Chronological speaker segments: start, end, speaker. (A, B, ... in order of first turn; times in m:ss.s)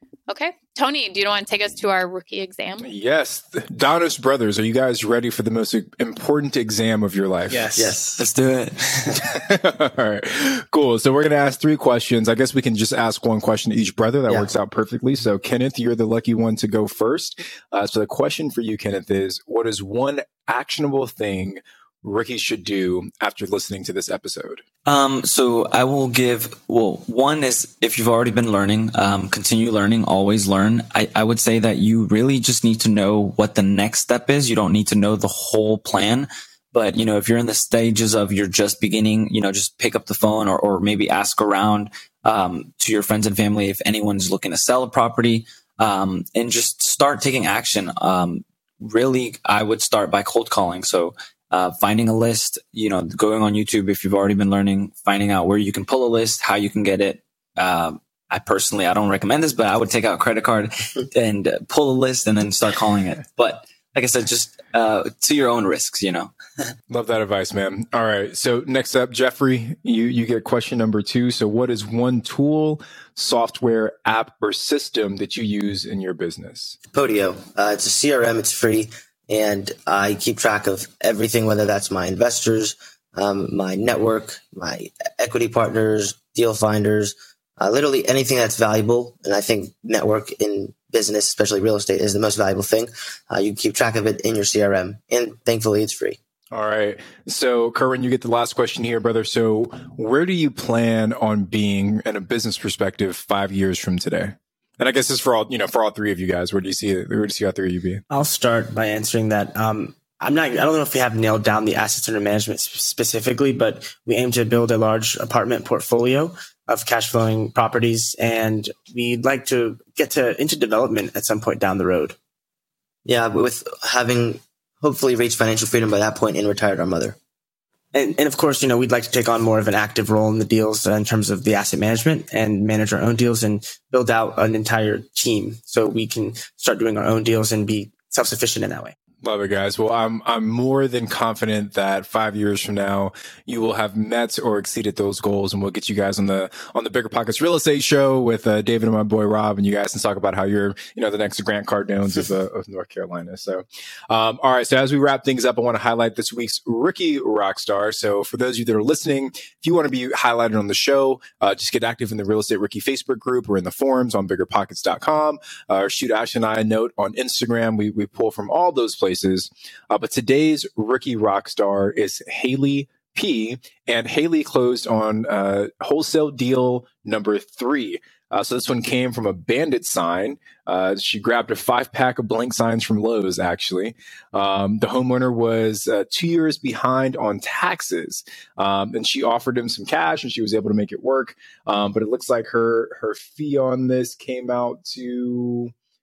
0:00.3-0:02.9 A
0:02.8-0:07.7 B
0:07.5-0:08.0 C
0:07.8-0:08.8 D
0:09.2-0:24.6 B
0:24.9-1:06.3 D
1:06.9-1:16.8 B
1:16.9-1:36.2 E
1:36.5-1:48.0 B
1:48.1-2:02.2 C
2:03.1-2:07.2 E
2:07.9-2:19.0 C
2:19.2-3:15.7 B